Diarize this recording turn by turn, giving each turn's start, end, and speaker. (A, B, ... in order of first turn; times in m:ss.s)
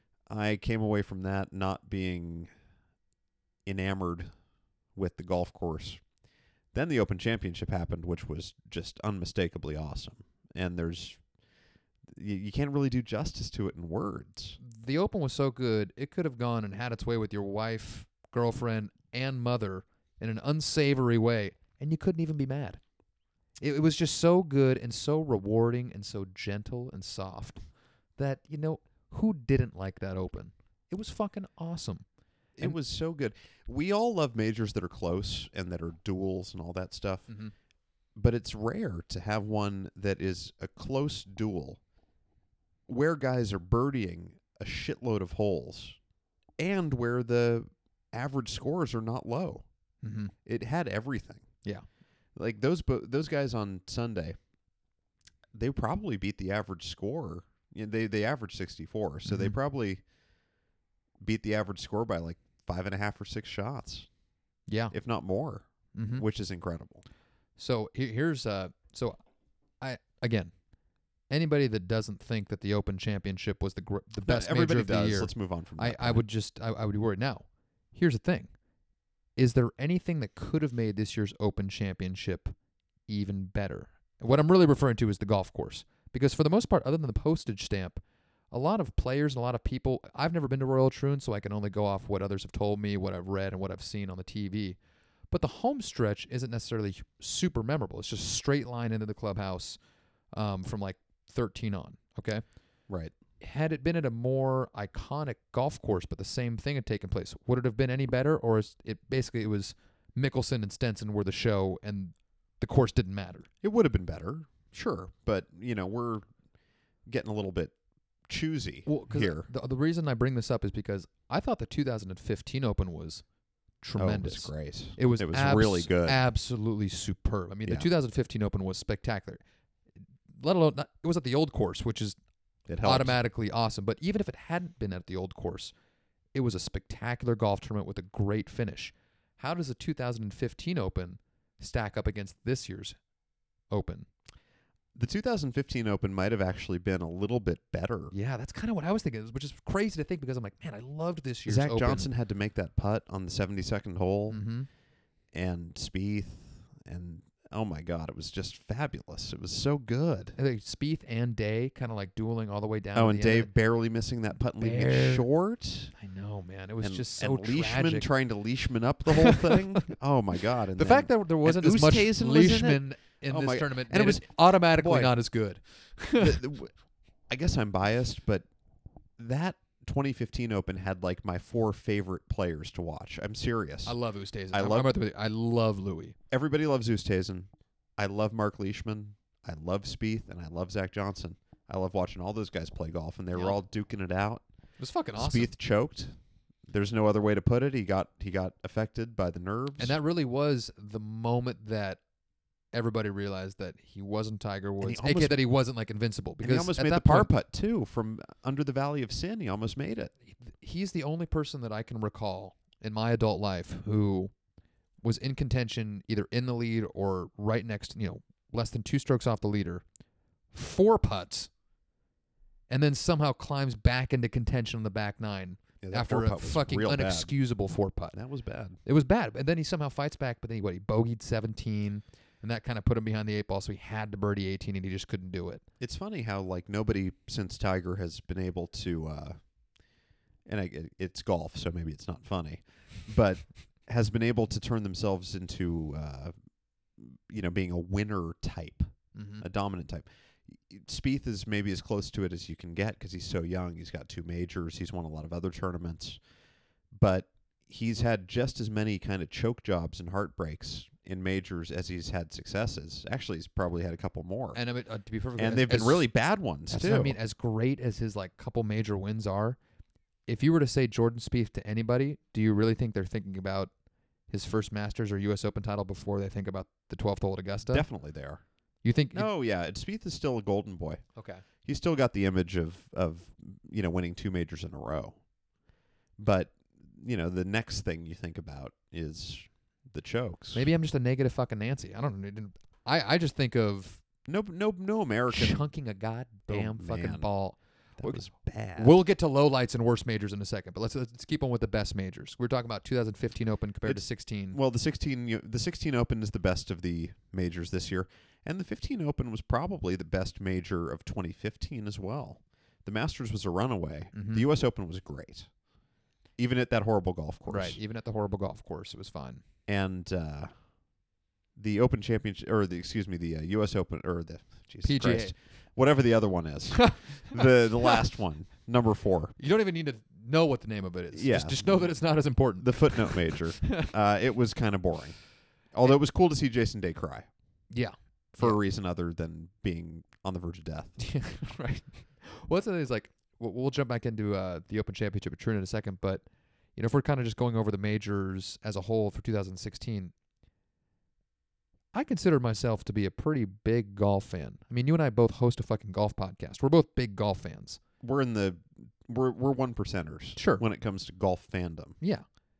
0:00.3-0:02.5 A
0:03.6-0:04.3 A
0:04.9-0:06.0 A
0:06.7-0:11.2 A
0:12.1-0:14.6 A
0:14.6-0:22.8 B
0:23.6-0:27.6 B
0:28.2-0:32.0 B
0:32.6-0:37.3 A
0:38.1-0:41.8 A
0:42.9-0:46.0 A
0:46.6-0:49.6 A
0:50.0-0:50.3 B
0:50.4-0:51.5 A
0:52.4-0:54.3 A
0:55.5-1:00.0 A
0:59.3-0:59.6 B
1:01.2-1:04.1 A
1:04.7-1:04.9 B
1:04.9-1:07.0 A
1:05.9-1:06.2 B
1:07.6-1:09.2 B
1:09.8-1:10.5 B
1:11.3-1:18.5 B
1:14.2-1:16.2 A
1:19.4-1:22.5 B
1:23.1-1:34.8 B
1:35.3-1:39.8 B
1:40.3-1:42.4 B
1:42.9-1:43.1 A
1:43.4-1:53.5 B
1:53.6-1:56.2 A
1:57.0-1:57.7 A
1:58.3-1:59.5 A
1:58.8-2:03.2 B
2:03.8-2:09.4 B
2:04.0-2:06.2 A
2:10.4-2:12.2 B
2:12.7-2:13.1 A
2:12.8-2:15.7 B
2:16.3-2:23.0 B
2:23.7-2:24.1 B
2:24.9-2:28.1 A
2:28.1-2:32.1 B
2:31.4-2:34.4 A
2:34.3-2:34.7 B
2:35.3-2:40.4 A
2:40.4-2:43.5 B
2:42.9-2:45.9 A
2:44.6-2:45.3 B
2:46.0-2:48.1 B
2:46.8-2:55.1 A
2:49.1-2:49.9 B
2:50.7-2:56.4 B
2:56.2-2:56.7 A
2:57.3-2:58.4 A
2:59.2-3:04.0 A
3:03.8-3:06.1 B
3:04.5-3:04.9 A
3:06.3-3:14.4 A
3:13.3-3:13.6 B
3:14.8-3:15.5 B
3:15.2-3:16.2 A
3:16.7-3:20.0 A
3:19.8-3:22.0 B
3:22.7-3:27.3 B
3:24.8-3:25.4 A
3:26.4-3:30.1 A
3:30.4-3:34.3 B
3:35.0-3:39.8 B
3:40.5-3:41.5 B
3:42.7-3:48.2 B
3:45.8-3:47.3 A
3:48.1-3:48.8 A
3:48.8-3:55.6 B
3:55.8-3:59.4 A
4:00.4-4:06.3 A
4:07.0-4:16.2 A
4:09.1-4:09.4 B
4:16.9-4:24.6 A
4:24.5-4:26.0 B
4:25.4-4:27.2 A
4:26.7-4:29.6 B
4:30.3-4:33.7 B
4:34.3-4:37.8 B
4:37.7-4:38.4 A
4:38.8-4:39.3 B
4:39.1-4:41.0 A
4:41.2-4:41.4 B
4:41.6-4:45.2 A
4:46.2-4:50.7 A
4:50.5-4:54.0 B
4:54.2-4:55.6 A
4:55.3-4:58.2 B
4:56.5-4:57.3 A
4:58.0-4:58.9 A
4:58.8-5:04.6 B
5:03.8-5:15.5 A
5:14.1-5:14.4 B
5:16.4-5:17.8 A
5:17.5-5:19.4 B
5:19.7-5:20.5 A
5:21.6-5:29.4 A
5:24.8-5:25.3 B
5:26.8-5:28.0 B
5:29.4-5:33.9 B
5:31.1-5:35.2 A
5:35.7-5:37.3 A
5:37.7-5:38.6 B
5:38.4-5:41.0 A
5:41.0-5:46.2 B
5:46.8-5:50.1 B
5:51.9-5:57.8 B
5:58.0-6:02.0 A
6:00.4-6:00.6 B